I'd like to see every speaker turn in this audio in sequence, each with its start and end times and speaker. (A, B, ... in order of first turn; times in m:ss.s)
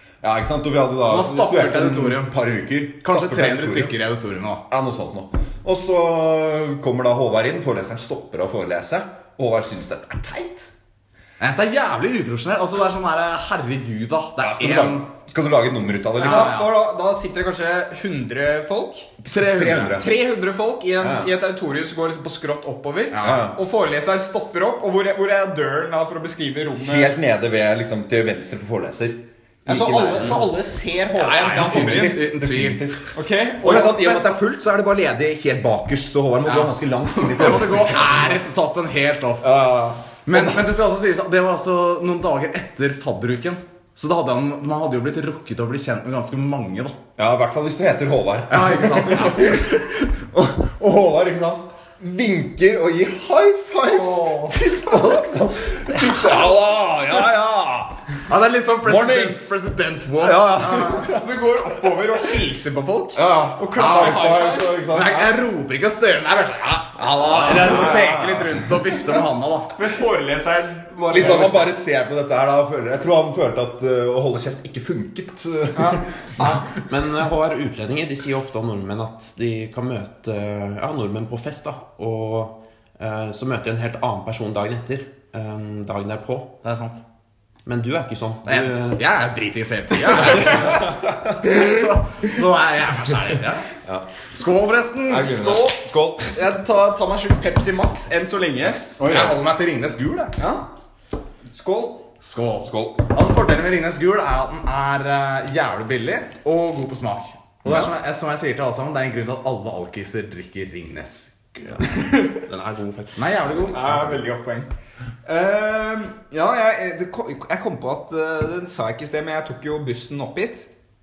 0:00.2-0:03.9 A
0:01.0-0:02.3 B
0:03.0-0:04.6 B
0:04.7-0:10.7 A
0:11.4-0:15.1 B
0:14.4-0:16.6 A
0:16.2-0:19.1 C
0:16.2-0:16.7 B
0:19.2-0:20.1 A
0:19.3-0:20.0 B
0:19.9-0:27.2 C
0:21.0-0:21.3 A
0:23.1-0:23.5 B
0:23.2-0:23.6 A
0:26.7-0:30.5 A
0:29.6-0:32.2 C
0:31.1-0:32.8 B
0:31.5-0:38.4 A
0:33.1-0:34.3 C
0:36.4-0:39.6 B
0:39.4-0:40.7 A
0:40.2-0:47.0 B
0:47.2-0:58.0 A
0:48.5-0:49.7 B
0:53.8-0:54.9 C
0:58.3-1:01.0 B
0:58.8-0:59.5 A
1:00.2-1:01.2 A
1:00.8-1:05.0 C
1:03.2-1:05.3 A
1:03.8-1:04.4 B
1:04.9-1:09.7 B
1:07.0-1:09.1 A
1:09.7-1:11.7 C
1:11.1-1:16.7 A
1:15.7-1:16.4 C
1:16.7-1:26.6 D
1:26.6-1:27.0 B
1:27.6-1:29.0 D
1:28.4-1:33.7 B
1:34.3-1:35.5 B
1:35.1-1:36.3 A
1:35.3-1:39.1 C
1:39.0-1:40.4 B
1:39.0-1:39.4 A
1:40.4-1:40.7 C
1:41.5-1:42.0 C
1:42.2-1:51.5 B
1:42.6-1:43.0 A
1:47.6-1:47.9 A
1:51.8-1:52.4 C
1:52.5-1:54.1 D
1:53.2-1:53.9 B
1:53.7-1:54.7 C
1:55.2-2:00.7 C